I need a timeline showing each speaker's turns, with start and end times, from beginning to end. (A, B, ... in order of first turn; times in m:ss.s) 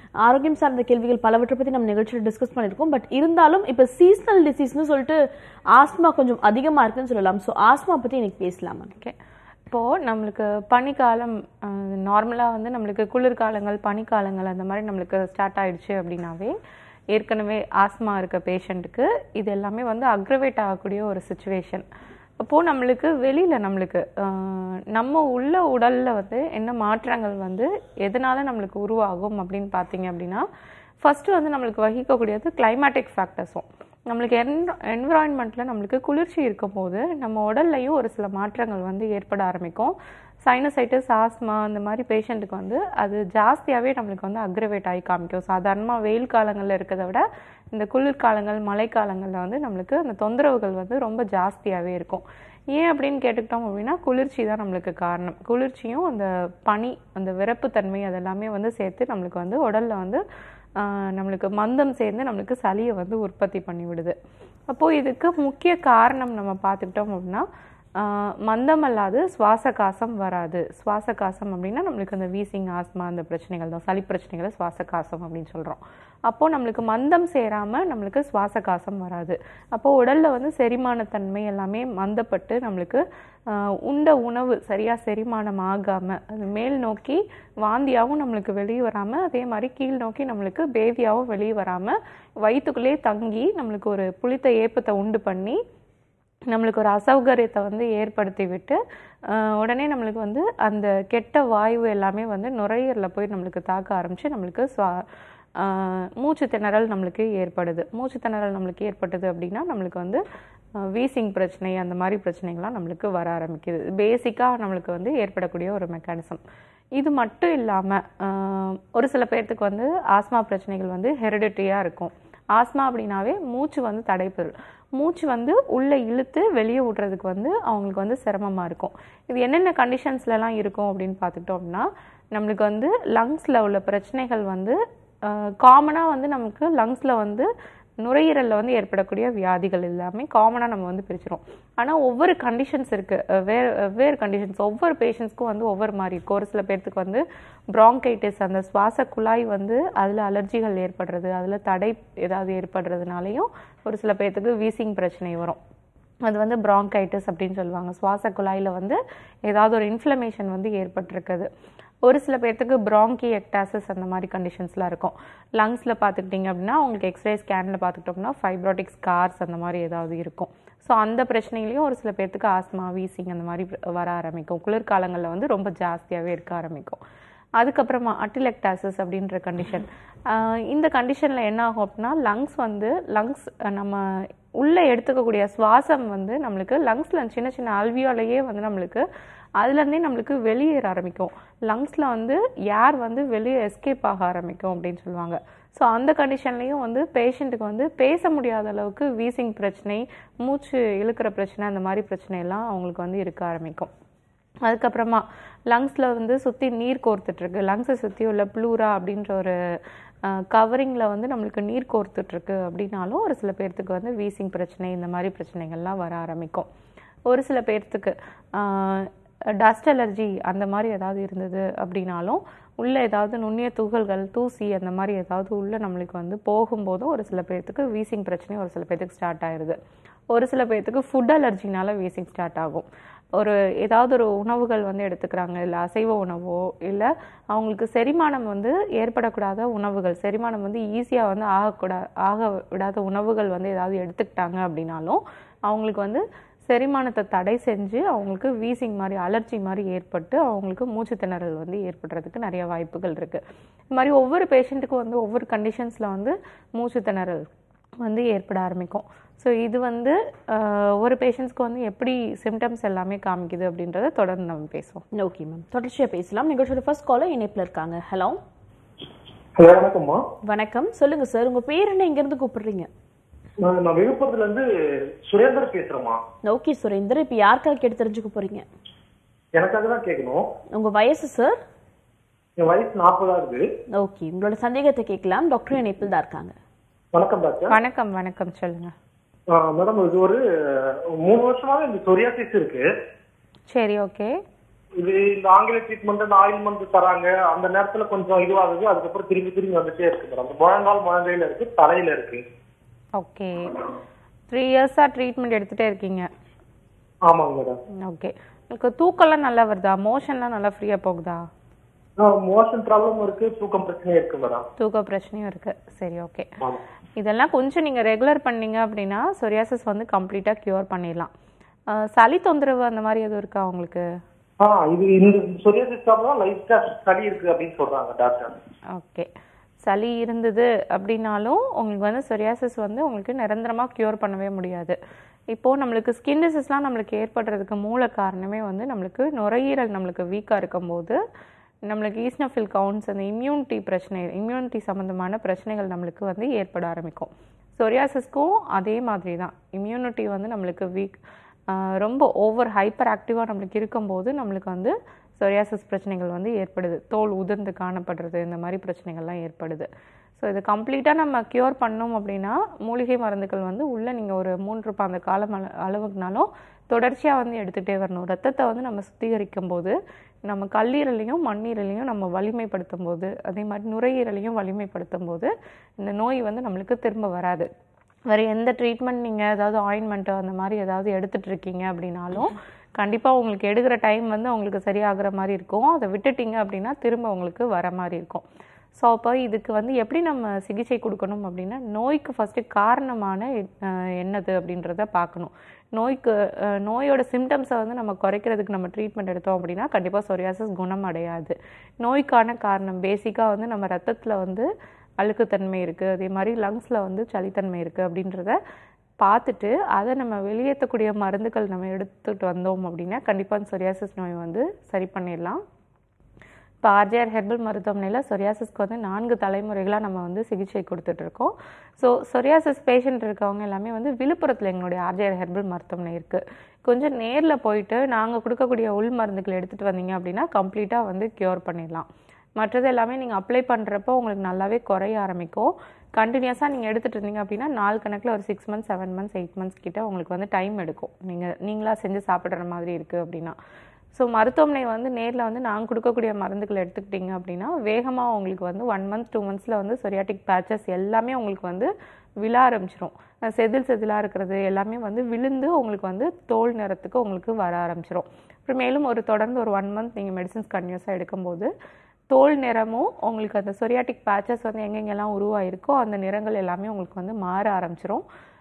0:00.2-0:05.2 A
0:05.7-0:08.9 A
0:09.7-0:16.5 B
0:17.1-0:21.8 B
0:22.4-0:30.4 B
0:31.0-1:00.2 B
1:00.8-1:04.1 B
1:04.7-1:07.4 B
1:08.0-1:35.6 B
1:36.5-1:45.0 B
1:45.6-1:50.2 B
1:50.8-1:56.4 B
1:57.0-2:17.5 B
2:18.0-2:35.6 B
2:36.2-2:41.5 B
2:42.0-2:57.0 B
2:57.6-3:09.0 B
3:09.6-3:23.9 B
3:24.6-3:29.5 B
3:30.2-3:36.7 B
3:37.3-3:49.8 B
3:50.3-4:13.4 B
4:13.9-4:17.5 B
4:18.0-4:25.0 B
4:25.1-4:28.4 A
4:29.6-4:30.2 C
4:30.5-4:32.9 A
4:33.6-4:34.6 C
4:35.3-4:36.2 C
4:36.4-4:38.6 A
4:39.5-4:40.4 C
4:40.7-4:41.6 A
4:42.6-4:43.6 C
4:44.0-4:46.5 A
4:47.1-4:47.7 C
4:47.7-4:48.9 B
4:49.5-4:52.8 C
4:53.7-4:54.3 B
4:55.0-5:02.4 C
5:03.2-5:03.7 B
5:04.5-5:06.3 B
5:07.3-5:07.8 C
5:08.0-5:11.4 B
5:12.2-5:14.6 C
5:14.8-5:16.5 B
5:17.2-5:21.3 B
5:21.9-5:24.0 B
5:24.6-5:28.5 C
5:28.9-5:29.3 B
5:29.8-5:34.9 B
5:35.5-5:41.2 B
5:41.9-5:51.2 B
5:51.7-5:59.9 B
6:00.4-6:09.9 B
6:10.4-6:17.7 B
6:18.3-6:28.4 B
6:29.0-6:44.7 B
6:45.2-6:48.6 B
6:49.2-6:55.6 B
6:56.8-7:12.1 B
7:12.6-7:23.6 B
7:24.1-7:31.9 B
7:32.4-7:41.7 B
7:42.3-7:48.2 B